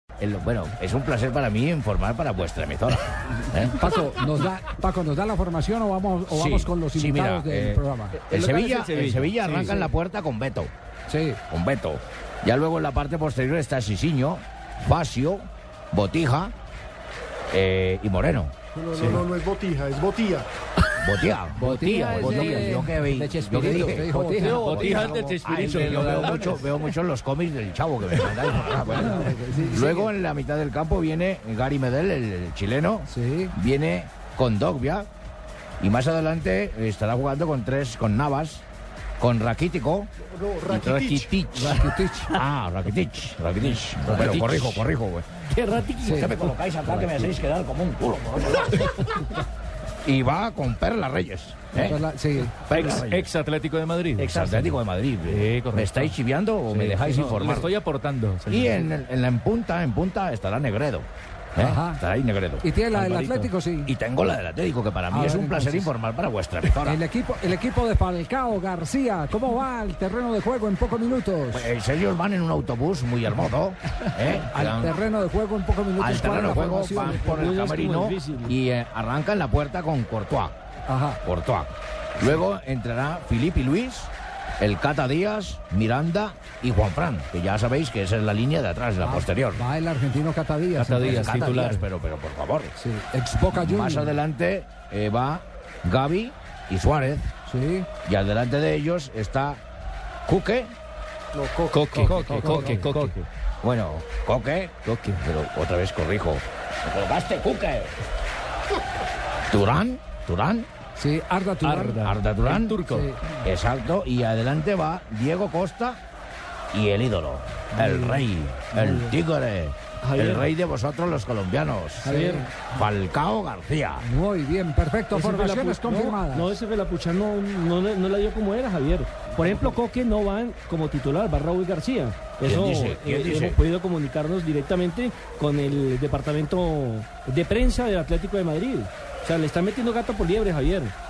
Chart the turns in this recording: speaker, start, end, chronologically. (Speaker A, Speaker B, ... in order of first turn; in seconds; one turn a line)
Speaker A: 0.2-3.8
Speaker B: 3.7-8.2
Speaker A: 6.3-10.7
Speaker C: 8.1-9.9
Speaker B: 11.1-11.4
Speaker A: 11.5-16.5
Speaker A: 17.5-18.5
Speaker D: 18.8-20.4
Speaker C: 18.9-19.2
Speaker A: 21.0-35.1
Speaker B: 21.6-24.7
Speaker C: 22.2-26.7
Speaker D: 24.6-25.4
Speaker B: 28.9-30.1
Speaker B: 33.1-33.5
Speaker A: 35.8-38.6
Speaker A: 39.2-40.1
Speaker D: 40.4-41.3
Speaker C: 40.7-42.0
Speaker A: 41.3-41.8
Speaker B: 41.7-42.3
Speaker A: 42.3-49.2
Speaker C: 44.0-44.8
Speaker B: 46.0-46.4
Speaker C: 46.9-47.2
Speaker A: 50.0-52.0
Speaker B: 51.7-52.5
Speaker C: 52.6-56.1
Speaker A: 52.6-53.3
Speaker A: 54.2-57.7
Speaker C: 56.7-58.8
Speaker A: 58.5-67.0
Speaker B: 61.6-62.0
Speaker B: 62.6-63.9
Speaker C: 63.0-63.4
Speaker B: 65.1-65.9
Speaker B: 66.8-71.7
Speaker A: 71.5-75.0
Speaker B: 74.5-77.3
Speaker A: 76.0-80.5
Speaker E: 76.7-78.5
Speaker B: 80.9-81.2
Speaker A: 81.2-89.6
Speaker B: 89.0-91.4
Speaker C: 90.7-91.8
Speaker A: 91.0-92.7
Speaker B: 92.8-94.1
Speaker A: 93.5-97.3
Speaker B: 97.5-97.9
Speaker A: 98.0-99.6
Speaker A: 100.3-100.7
Speaker D: 101.3-101.9
Speaker C: 101.7-103.3
Speaker B: 101.9-103.1
Speaker A: 103.6-107.9
Speaker C: 104.8-105.2
Speaker A: 109.5-110.7
Speaker B: 111.0-112.1
Speaker C: 111.6-113.1
Speaker A: 112.0-116.0
Speaker B: 112.9-113.3
Speaker A: 116.7-122.1
Speaker E: 117.8-119.1
Speaker E: 120.0-120.5
Speaker E: 122.0-122.5
Speaker B: 122.0-122.5
Speaker A: 122.7-124.0
Speaker B: 124.0-126.5
Speaker E: 125.1-140.9
Speaker A: 132.4-133.6